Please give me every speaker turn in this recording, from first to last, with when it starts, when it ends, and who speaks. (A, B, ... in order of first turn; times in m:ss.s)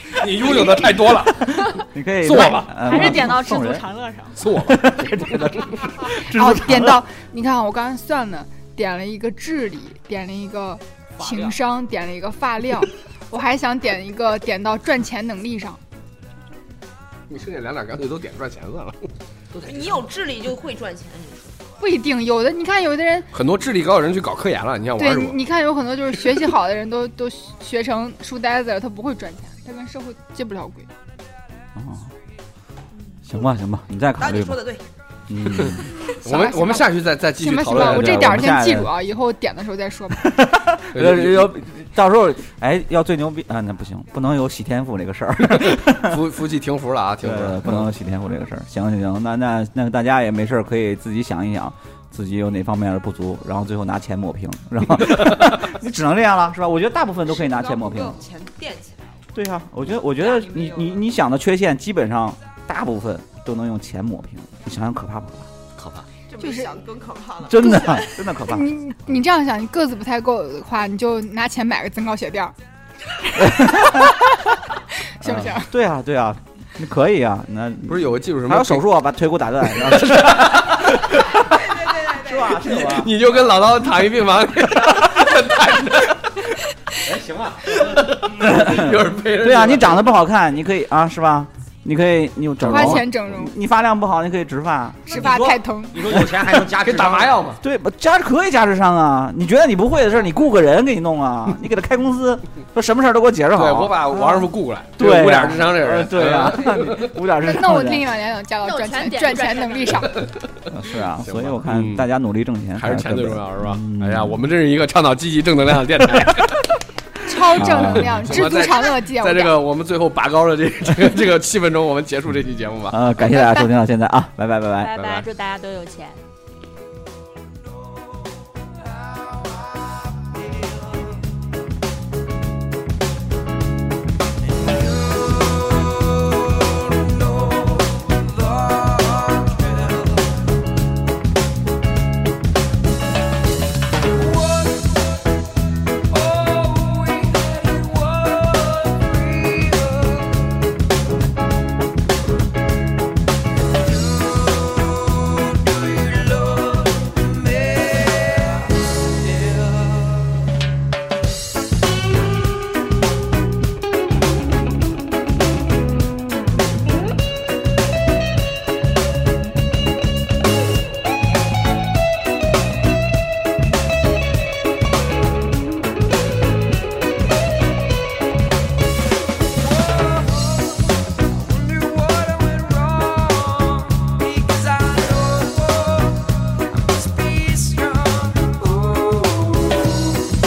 0:00.1-0:01.7 A
0:01.4-0:03.8 B
0:02.2-0:03.2 A
0:02.7-0:04.4 C
0:04.4-0:06.1 A
0:04.6-0:07.0 B
0:06.2-0:15.8 D
0:11.2-0:11.6 E
0:17.3-0:19.1 A
0:19.6-0:21.6 F
0:19.7-0:19.9 E
0:21.8-0:23.3 D
0:23.3-0:25.4 A
0:25.0-0:30.9 D
0:31.8-0:32.1 B
0:33.2-0:34.7 B
0:34.2-0:34.8 F
0:35.3-0:35.9 B
0:35.6-0:38.3 A
0:36.1-0:40.3 D
0:37.8-0:38.9 B
0:40.2-0:46.2 B
0:40.9-0:41.5 A
0:45.5-0:47.9 A
0:47.2-0:58.2 B
0:57.3-0:59.2 F
0:59.3-1:05.5 B
1:00.2-1:01.0 F
1:06.3-1:08.0 F
1:06.4-1:06.7 D
1:07.4-1:08.7 B
1:07.7-1:12.5 D
1:13.4-1:14.1 B
1:13.4-1:14.1 D
1:15.2-1:15.7 D
1:15.2-1:23.2 B
1:17.9-1:18.9 A
1:19.7-1:21.2 A
1:21.5-1:22.6 F
1:22.5-1:26.5 A
1:27.0-1:27.9 E
1:27.8-1:30.1 A
1:28.3-1:35.2 B
1:32.6-1:33.0 A
1:32.6-1:33.5 D
1:35.1-1:36.2 D
1:35.1-1:37.5 E
1:36.8-1:37.6 A
1:37.6-1:48.1 B
1:43.5-1:47.2 A
1:47.4-1:50.2 D
1:48.6-1:50.1 C
1:50.7-1:54.4 B
1:51.2-1:52.1 A
1:52.7-1:56.7 A
1:57.2-1:59.6 D
1:57.5-2:03.0 A
1:57.5-1:58.3 B
2:02.9-2:05.0 B
2:03.4-2:03.7 D
2:04.8-2:06.2 C
2:05.0-2:05.3 A
3:02.4-3:03.1 F
3:04.1-3:05.4 F
3:06.9-3:09.6 F